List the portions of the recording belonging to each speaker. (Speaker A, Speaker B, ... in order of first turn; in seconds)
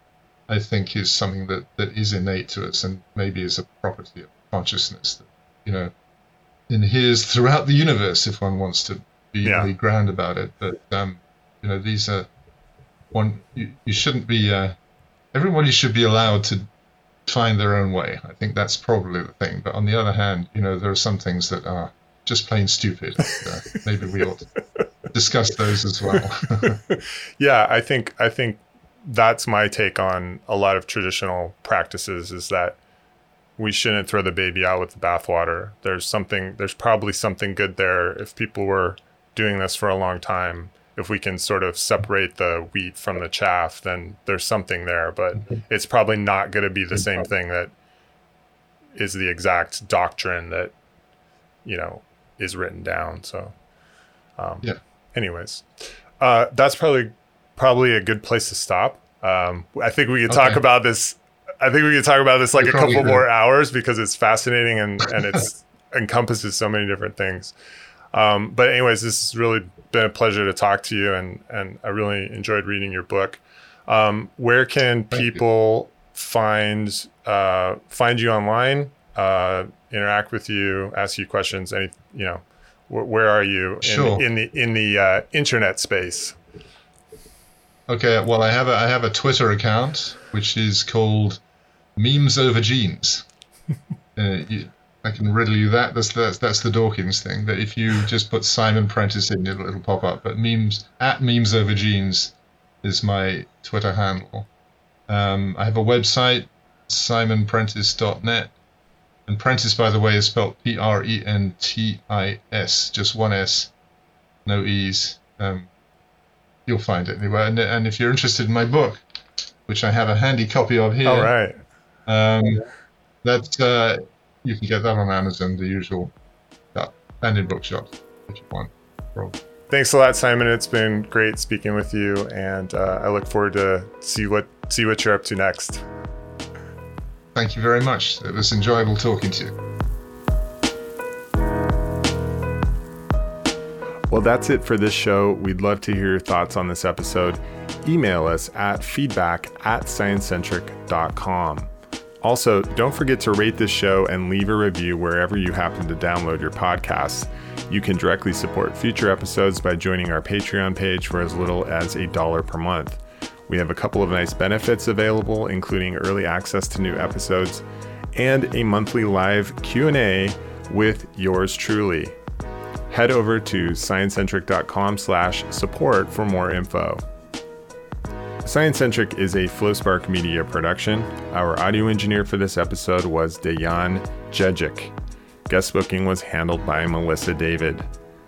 Speaker A: 0.5-5.9, 6.7-12.3, 13.1-14.7, 15.3-16.6, 17.2-24.5, 25.1-26.8, 60.3-60.6, 62.5-63.2, 75.1-75.4, 83.8-84.2, 87.9-91.4, 92.0-93.2, 94.2-104.5, 105.1-108.5, 109.3-113.7, 114.5-115.7, 116.7-119.0, 119.7-121.3, 122.1-122.6, 123.2-126.1, 126.7-129.4, 137.3-139.5
Speaker B: 9.4-9.7, 26.9-32.8, 33.6-47.7, 48.9-50.7, 51.6-53.5, 54.4-67.5, 68.1-86.4, 121.0-121.6, 129.7-135.8, 144.1-151.7, 152.2-172.2, 172.9-177.0, 178.4-184.9, 185.5-187.8